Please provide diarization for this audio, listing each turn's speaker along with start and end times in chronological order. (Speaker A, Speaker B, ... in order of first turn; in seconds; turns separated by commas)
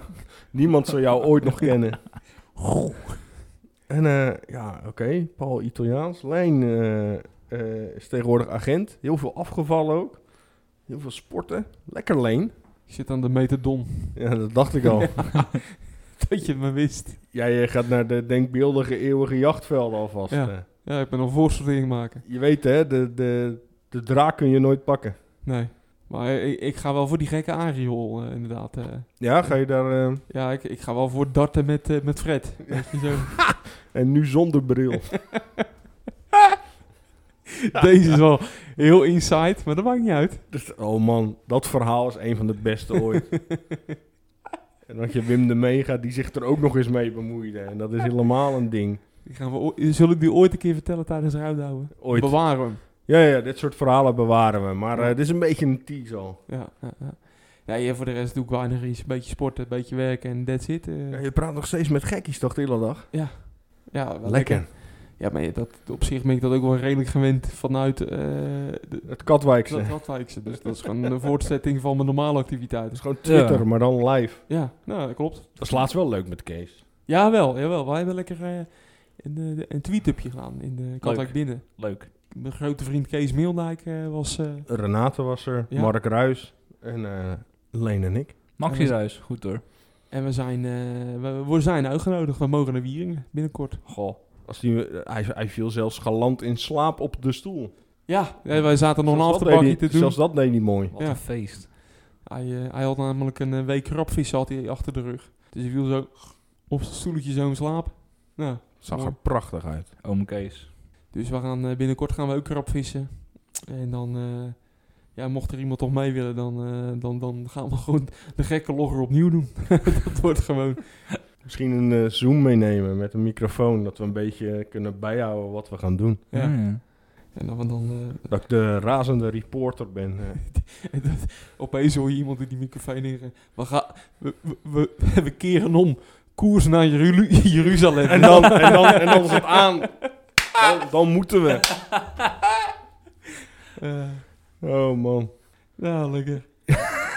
Speaker A: 0.5-2.6, Speaker A: 3.9-12.6, Speaker B: 12.9-15.5, Speaker A: 14.1-15.3, Speaker B: 16.1-17.2, Speaker A: 17.3-20.6, Speaker B: 20.3-22.2, Speaker A: 22.2-25.2, Speaker B: 25.4-33.6, Speaker A: 29.2-30.2, Speaker A: 33.8-35.3, Speaker B: 37.6-40.5, Speaker A: 37.7-38.2, Speaker A: 40.5-43.6, Speaker A: 44.9-49.0, Speaker B: 49.2-52.8, Speaker A: 52.0-56.4, Speaker B: 56.5-61.2, Speaker A: 61.1-63.3, Speaker B: 63.1-73.0, Speaker A: 64.2-64.7, Speaker A: 69.0-70.5, Speaker A: 72.9-74.5, Speaker C: 73.2-73.6, Speaker B: 74.5-75.9, Speaker A: 75.6-76.8, Speaker B: 77.1-84.7, Speaker C: 81.0-82.1, Speaker A: 84.7-88.4, Speaker B: 85.7-85.9, Speaker C: 88.5-89.6, Speaker B: 88.7-89.1, Speaker B: 90.1-93.8, Speaker C: 93.8-94.2, Speaker A: 94.4-98.0, Speaker B: 98.0-109.2, Speaker A: 99.0-100.9, Speaker C: 100.9-101.7, Speaker A: 108.8-109.9, Speaker C: 110.0-110.7, Speaker B: 111.1-121.1, Speaker A: 121.4-126.2, Speaker B: 126.3-128.3, Speaker C: 126.3-126.8, Speaker A: 128.2-130.5, Speaker B: 130.5-139.5, Speaker A: 138.1-141.8, Speaker B: 143.8-144.2, Speaker A: 144.6-145.3, Speaker B: 145.8-146.8